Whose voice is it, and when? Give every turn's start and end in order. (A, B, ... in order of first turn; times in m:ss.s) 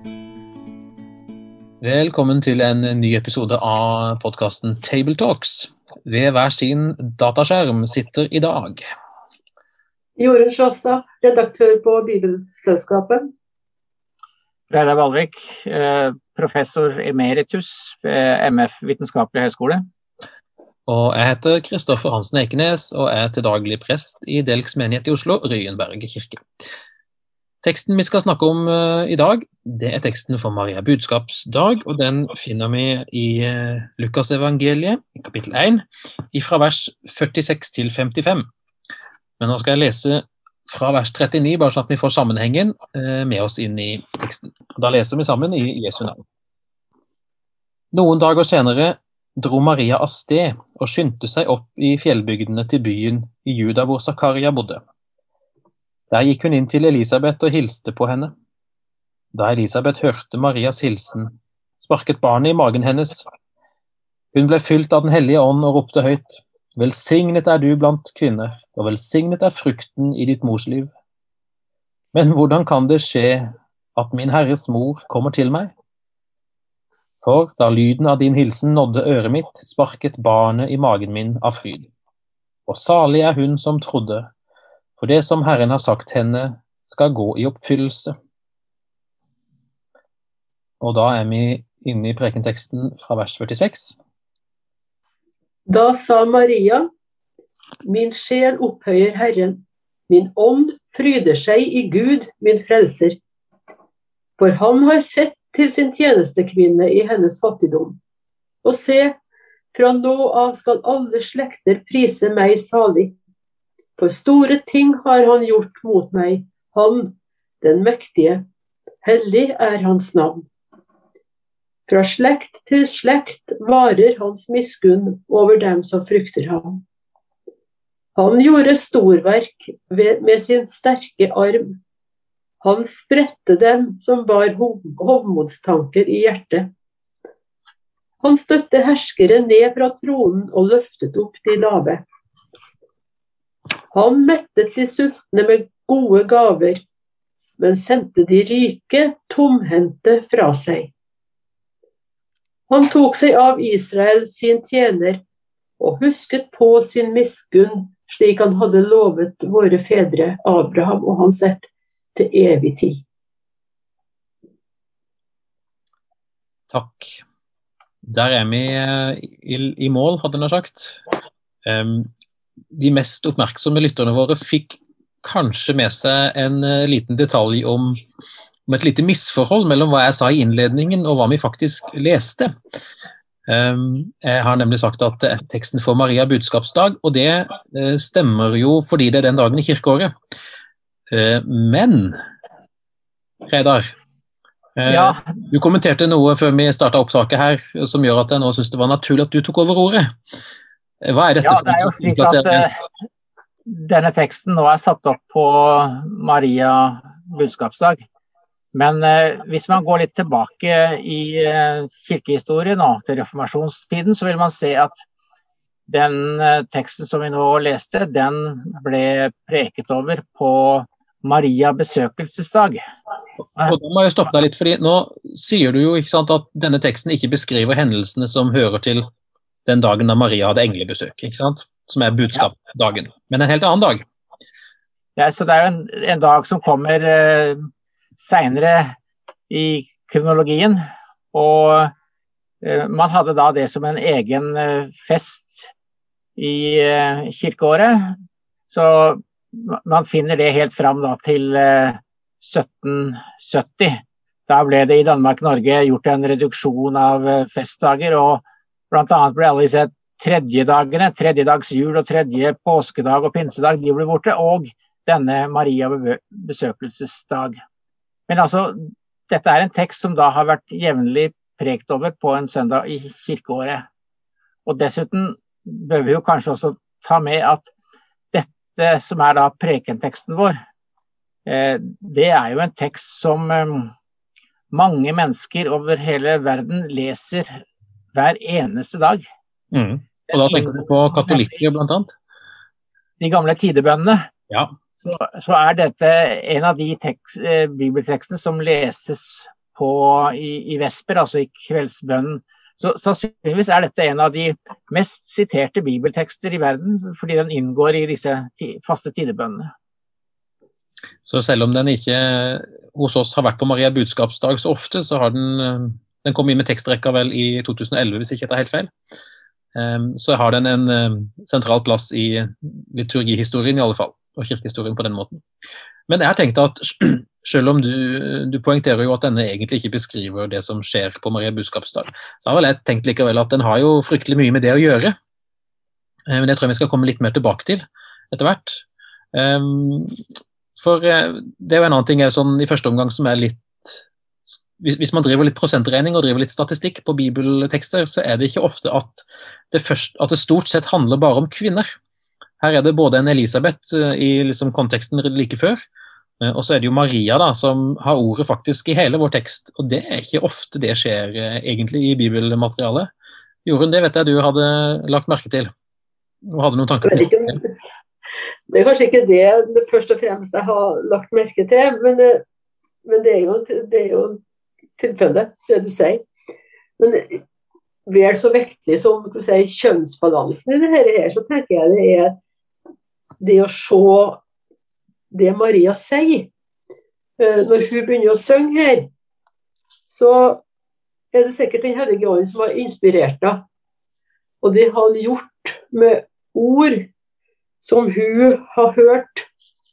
0:01.8-0:08.8 A
0:10.2-0:13.3 B
0:14.7-0:19.8 C
0:20.9-0:26.4 A
0:27.6-0:38.5 A
0:39.4-0:46.2 A
0:47.9-0:54.8 A
0:56.1-0:58.3 A
0:59.3-1:03.2 A
1:04.3-1:10.9 A
1:12.1-1:15.7 A
1:17.2-1:21.9 A
1:22.7-1:24.3 A
1:25.0-1:28.1 A
1:30.8-1:34.0 A
1:35.7-1:36.9 B
1:37.8-1:43.2 B
1:44.4-1:48.0 B
1:48.6-1:49.2 B
1:49.7-1:53.1 B
1:54.0-1:58.4 B
1:59.0-2:00.4 B
2:01.9-2:06.8 B
2:08.2-2:11.8 B
2:12.6-2:16.7 B
2:18.2-2:22.0 B
2:23.9-2:26.8 B
2:27.6-2:30.9 B
2:32.7-2:35.2 B
2:35.8-2:43.0 B
2:46.7-2:47.2 A
2:48.0-2:51.0 A
2:51.6-2:52.1 A
2:52.7-2:58.0 A
2:58.7-3:02.5 A
3:03.5-3:10.1 A
3:11.1-3:12.2 A
3:13.4-3:13.9 A
3:14.8-3:20.1 A
3:14.9-3:15.2 C
3:21.0-3:22.6 A
3:21.4-3:22.7 C
3:23.7-3:28.0 C
3:28.7-3:35.0 C
3:35.9-3:42.8 C
3:43.6-3:49.0 A
3:49.6-3:54.0 A
3:55.2-3:57.6 C
3:58.2-3:58.9 C
3:59.5-4:00.8 C
4:01.3-4:01.9 C
4:02.6-4:05.7 C
4:06.4-4:08.1 C
4:08.7-4:27.6 C
4:28.3-4:33.8 C
4:34.6-4:37.7 C
4:38.3-4:40.6 C
4:41.4-4:43.9 C
4:44.7-4:47.6 C
4:48.1-4:49.2 C
4:49.7-4:52.1 A
4:50.3-4:51.5 C
4:53.2-4:54.2 C
4:54.5-4:54.7 A
4:55.0-5:09.7 C
5:11.2-5:18.9 A
5:19.7-5:25.4 A
5:26.1-5:35.2 A
5:36.3-5:40.2 A
5:40.8-5:51.9 A
5:52.6-5:55.8 A
5:56.4-6:03.1 A
6:03.6-6:05.7 A
6:06.4-6:07.6 A
6:07.0-6:07.7 B
6:08.7-6:12.4 B
6:13.0-6:14.4 B
6:15.0-6:16.2 B
6:17.0-6:17.4 B
6:18.1-6:22.4 B
6:23.4-6:24.4 B
6:25.3-6:26.5 B
6:27.4-6:29.1 B
6:30.0-6:30.6 B
6:31.3-6:33.6 B
6:34.6-6:37.1 B
6:37.8-6:39.5 B